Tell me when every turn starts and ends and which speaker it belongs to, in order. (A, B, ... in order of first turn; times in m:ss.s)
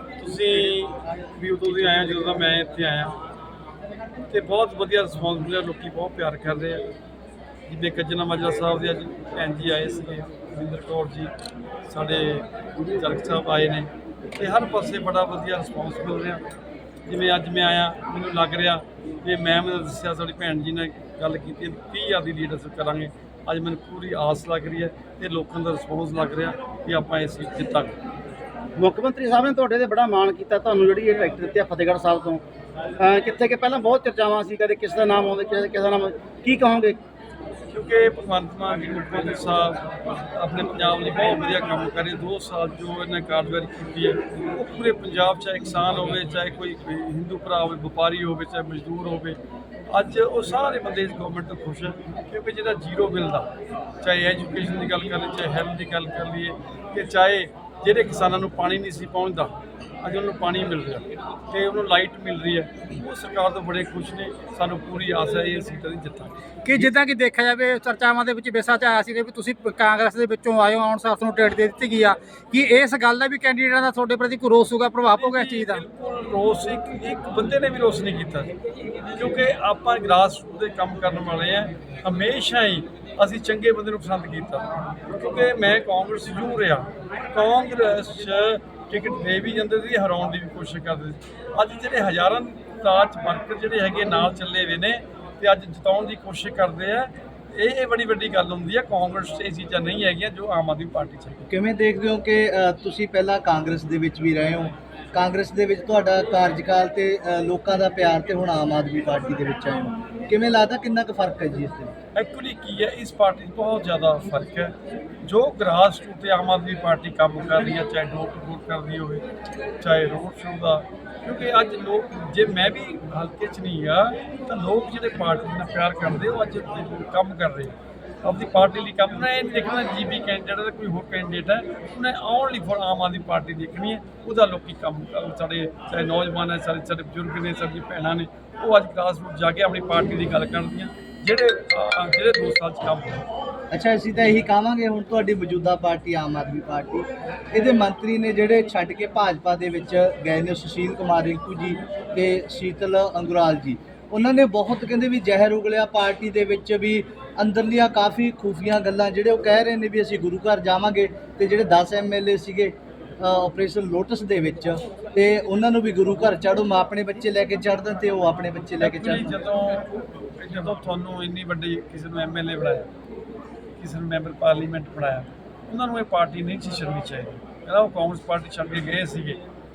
0:00.2-0:03.1 A
0:04.3-0:06.9 A
0:07.7-0:11.3 A
0:11.8-0:16.4 A
0:17.0-0:27.9 A
0:28.8-0:32.4 B
0:33.0-0:37.0 B
0:37.7-0:53.5 A
0:54.0-1:06.5 A
1:06.6-1:15.8 C
1:15.2-1:18.5 A
1:19.1-1:41.5 A
1:41.5-1:51.9 D
1:52.1-1:59.2 A
1:59.8-2:23.3 A
2:23.7-2:49.3 D
2:48.8-2:52.9 A
2:53.8-2:59.4 A